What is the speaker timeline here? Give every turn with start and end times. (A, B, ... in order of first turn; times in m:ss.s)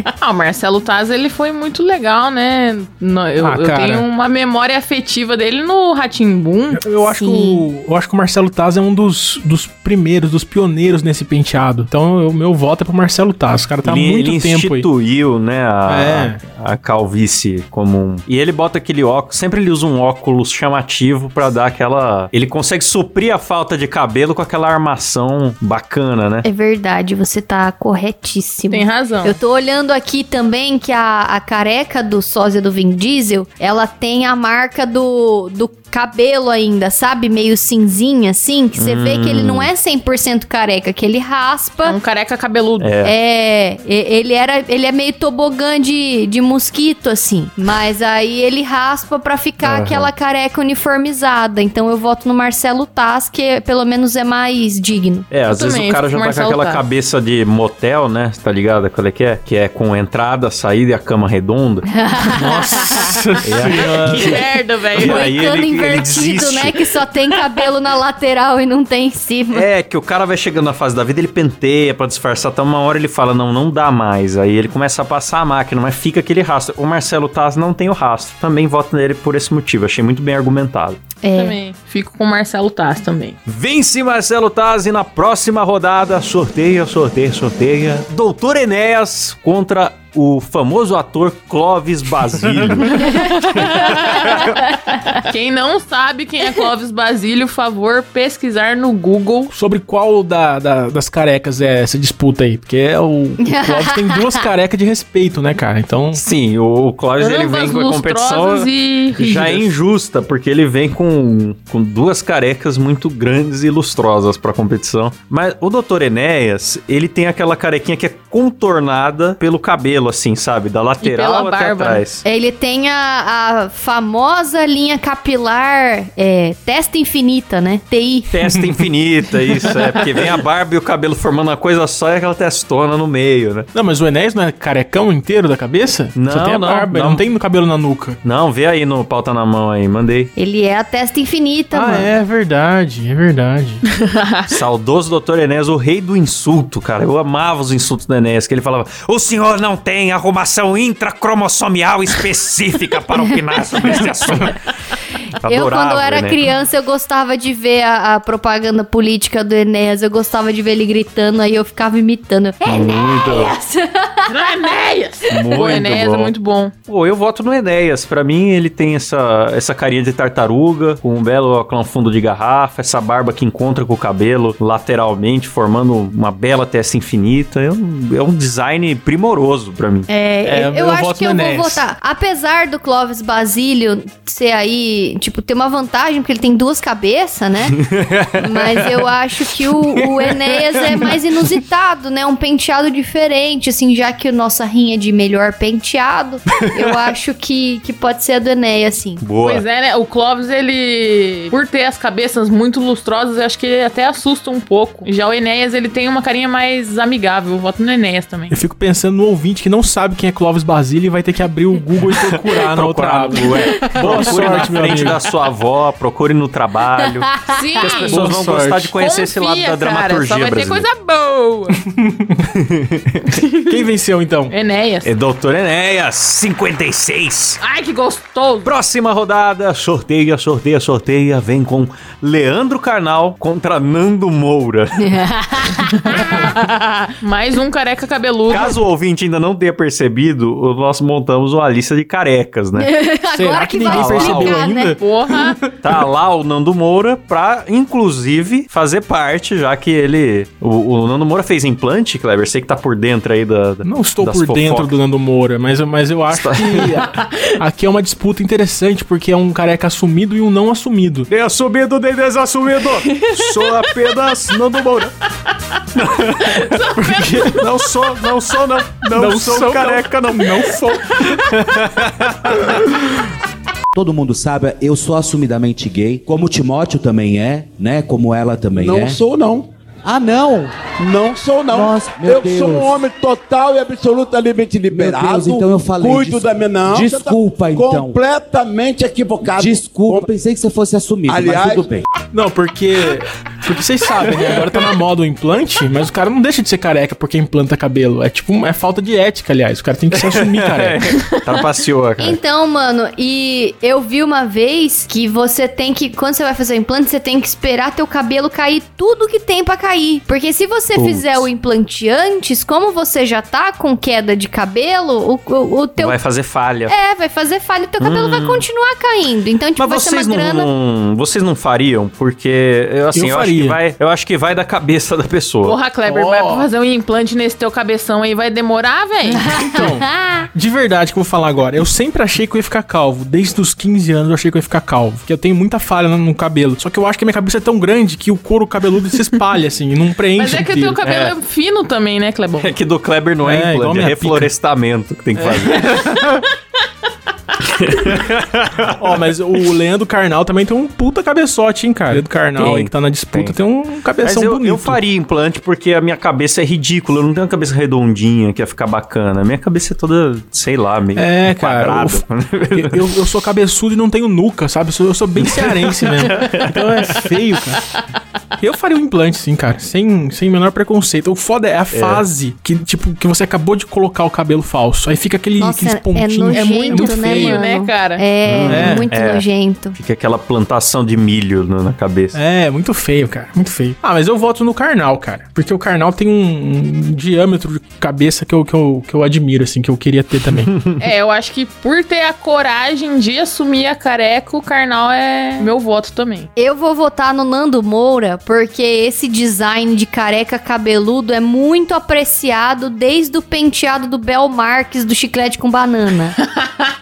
0:00.2-0:06.8 A
0:03.4-0:04.0 B
0:06.7-0:14.9 B
0:07.0-0:07.6 C
0:13.8-0:26.4 D
0:15.9-0:16.4 B
0:26.4-0:42.0 C
0:28.7-0:29.4 A
0:38.8-0:39.7 D
0:41.8-0:42.9 A
0:42.8-0:43.1 D
0:43.0-0:55.3 C
0:49.6-0:50.1 D
0:55.3-1:01.9 D
0:55.4-0:56.8 A
1:01.9-1:03.2 C
1:02.3-1:04.4 B
1:02.5-1:02.8 D
1:03.4-1:04.4 D
1:03.9-1:05.3 A
1:04.9-1:06.9 D
1:05.0-1:09.7 C
1:09.5-1:21.0 D
1:21.2-1:21.6 C
1:21.3-1:23.4 A
1:23.5-1:34.6 D
1:32.4-1:32.8 B
1:33.0-1:34.5 A
1:35.2-1:39.5 A
1:39.5-1:46.2 B
1:43.4-1:44.5 C
1:46.1-2:02.2 D
1:47.2-1:49.7 A
2:01.0-2:02.0 A
2:02.2-2:08.3 C
2:08.3-2:13.7 D
2:09.5-2:10.1 B
2:13.7-2:18.2 B
2:16.1-2:17.2 D
2:18.2-2:20.3 D
2:20.4-2:22.1 C
2:21.7-2:23.8 B
2:23.9-2:24.5 A
2:24.5-2:34.6 D
2:35.4-2:36.4 D
2:35.4-2:44.7 C
2:42.6-2:43.5 D
2:44.3-2:46.7 A
2:45.3-2:46.3 D
2:45.5-2:45.8 C
2:46.9-3:00.1 D
3:00.1-3:07.8 C
3:00.4-3:01.8 B
3:07.7-3:09.1 D
3:08.4-3:19.2 C
3:09.7-3:11.1 D
3:19.2-3:19.6 D
3:19.4-3:28.6 A
3:28.5-3:35.2 B
3:32.1-3:40.8 D
3:37.2-3:37.6 C
3:37.5-3:38.3 A
3:37.9-3:38.9 B
3:39.0-3:41.8 A
3:41.7-3:42.5 B
3:42.5-3:43.4 D
3:43.3-3:43.9 A
3:43.7-3:44.5 B
3:44.5-3:45.1 A
3:45.0-3:47.6 D
3:47.6-3:48.7 A
3:48.6-3:55.1 D
3:55.0-3:56.2 C
3:56.1-3:58.8 A
3:58.5-4:02.9 D
4:02.8-4:05.0 C
4:03.3-4:05.8 B
4:03.9-4:04.6 D
4:04.8-4:05.6 A
4:05.8-4:14.9 D
4:13.8-4:21.3 B
4:16.3-4:17.1 D
4:21.3-4:25.1 D
4:23.1-4:23.8 A
4:25.9-4:33.0 D
4:26.4-4:27.8 A
4:29.1-4:31.0 B
4:33.9-4:39.2 E
4:38.8-4:39.7 F
4:40.0-4:40.9 E
4:41.0-4:50.3 F
4:41.7-4:43.0 E
4:44.9-4:48.2 E
4:49.4-4:52.0 E
4:51.3-4:51.9 F
4:52.3-5:01.1 B
4:54.4-4:54.8 D
5:00.1-5:02.4 D
5:02.2-5:16.2 C
5:10.9-5:11.4 D
5:16.0-5:16.9 D
5:16.9-5:20.7 C
5:18.0-5:18.6 D
5:19.8-5:25.8 D
5:23.1-5:23.8 B
5:25.6-5:29.5 A
5:26.0-5:26.6 B
5:29.5-5:41.0 B
5:29.5-5:30.4 C
5:40.3-5:42.7 A
5:41.0-5:41.3 D
5:42.6-5:46.4 D
5:43.4-5:44.5 B
5:45.3-5:46.1 B
5:47.6-5:49.3 D
5:49.0-5:55.0 B
5:52.1-5:53.6 D
5:54.2-6:03.1 D
6:01.1-6:07.8 B
6:05.4-6:07.3 D
6:08.6-6:17.6 B
6:11.9-6:12.2 D
6:15.6-6:20.0 C
6:16.9-6:18.2 A
6:18.4-6:22.4 D
6:18.7-6:19.1 B
6:22.3-6:30.7 B
6:30.7-6:31.0 D
6:31.0-6:36.5 A
6:36.6-6:46.4 C
6:46.4-6:46.9 A